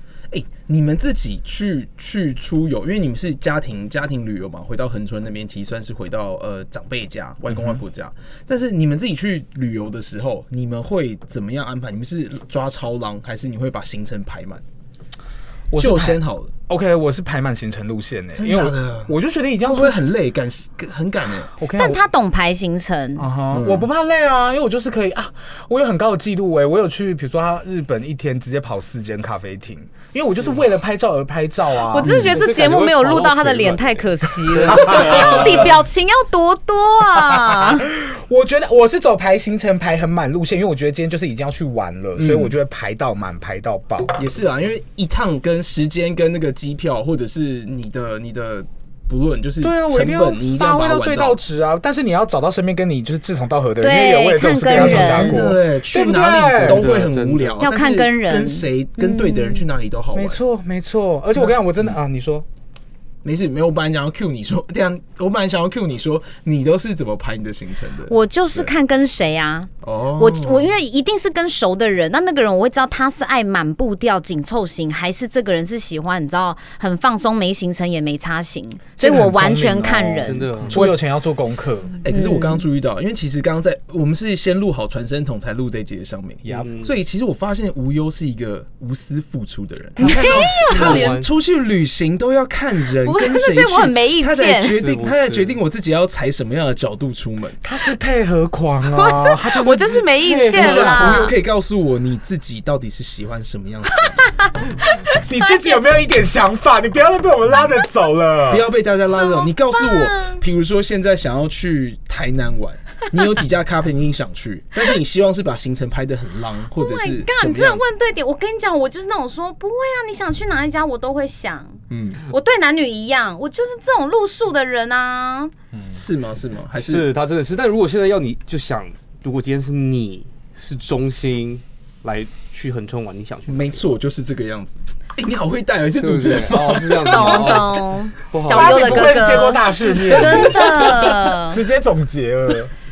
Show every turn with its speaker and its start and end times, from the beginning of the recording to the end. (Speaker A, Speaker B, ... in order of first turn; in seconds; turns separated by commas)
Speaker A: 0.3-14.6, Speaker B: 7.5-7.8, Speaker B: 15.7-20.0, Speaker A: 15.8-16.5, Speaker A: 18.3-21.5, Speaker B: 21.6-22.0, Speaker C: 21.8-23.3, Speaker B: 23.1-32.3, Speaker A: 23.5-23.9, Speaker C: 31.9-37.9, Speaker D: 32.1-35.8, Speaker B: 34.7-35.6, Speaker B: 37.2-44.1, Speaker A: 42.1-42.5, Speaker A: 44.1-51.4, Speaker B: 49.6-57.0, Speaker C: 53.8-55.4, Speaker A: 54.7-60.4, Speaker D: 56.6-57.6, Speaker C: 57.6-59.6, Speaker B: 60.1-62.4, Speaker A: 61.4-62.0, Speaker A: 63.2-68.7, Speaker C: 68.1-81.0, Speaker A: 69.8-70.7, Speaker B: 79.0-82.0, Speaker D: 80.2-80.9, Speaker A: 82.0-97.6, Speaker C: 82.1-82.6, Speaker D: 86.5-86.9, Speaker B: 90.0-90.7, Speaker C: 90.0-91.0, Speaker D: 90.7-91.3, Speaker C: 93.0-94.8, Speaker D: 94.7-95.6, Speaker B: 97.6-101.0, Speaker C: 98.8-101.3, Speaker D: 100.2-101.2, Speaker A: 100.5-104.2, Speaker C: 104.2-104.5, Speaker C: 105.1-105.7, Speaker B: 105.2-108.7, Speaker A: 108.5-117.8, Speaker C: 109.2-110.4, Speaker C: 116.8-121.8, Speaker A: 121.9-122.2, Speaker C: 122.3-125.5, Speaker A: 125.8-127.1, Speaker D: 126.7-133.8, Speaker A: 133.5-137.5, Speaker D: 136.0-139.3, Speaker C: 137.1-141.6, Speaker B: 138.5-142.7, Speaker A: 140.1-140.7